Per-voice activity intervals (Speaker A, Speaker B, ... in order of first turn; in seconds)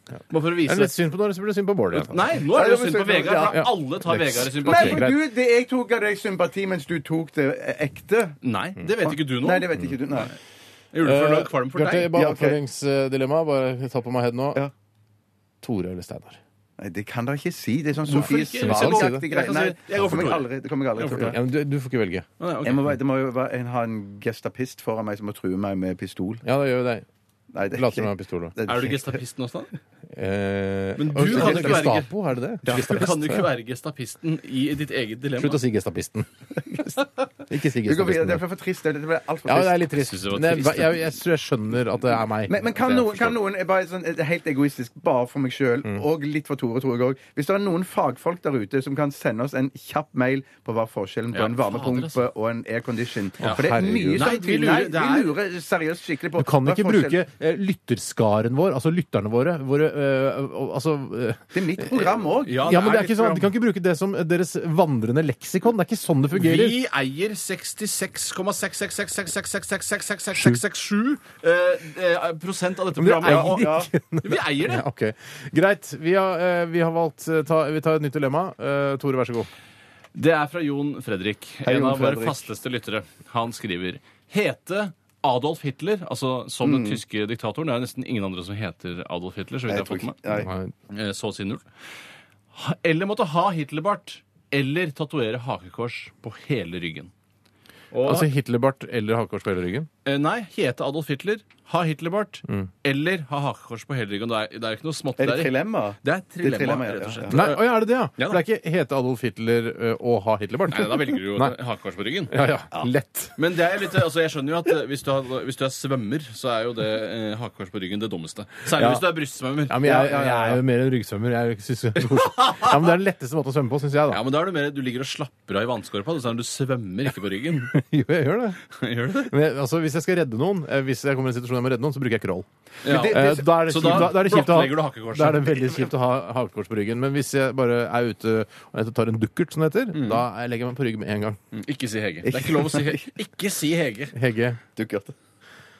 Speaker A: 0.3-1.0, 1.9-5.1, 8.4-9.7, 10.9-12.2, 18.1-21.3, 22.4-22.9, 28.7-29.7, 31.0-32.1, 32.7-35.6, 40.0-41.0, 51.3-52.2, 53.4-55.4, 62.5-63.5, 66.3-74.8, 80.2-90.2, 90.9-91.7, 92.5-97.1, 97.9-98.3, 100.0-108.4, 110.7-112.3, 113.4-119.8, 122.2-122.9, 124.1-127.8, 128.7-129.3, 132.8-135.9, 139.9-140.2, 141.5-144.2
Speaker B: 0.6-2.3, 3.5-5.2, 11.0-14.6, 15.6-16.4, 18.1-19.2, 21.2-22.3, 26.4-27.1, 27.7-28.5, 30.1-33.5, 35.4-36.9, 37.5-38.4, 39.5-43.4, 53.4-54.3, 56.4-66.8, 73.0-79.5, 90.4-90.7, 98.0-99.9, 107.3-111.5, 112.3-113.4, 118.7-119.1, 119.7-124.2, 127.7-128.6, 129.2-141.4, 144.2-144.6
Speaker C: 2.5-3.7, 4.6-8.4, 9.0-10.3, 12.1-12.6, 16.8-21.4, 22.6-26.4, 27.5-29.2, 31.3-31.9, 32.6-33.0, 36.6-36.9, 37.8-39.9, 42.5-57.2, 61.5-62.8, 73.2-73.9, 81.7-82.4, 86.6-87.0, 89.7-90.5, 105.2-107.4, 119.8-120.6, 142.3-143.0, 144.8-145.2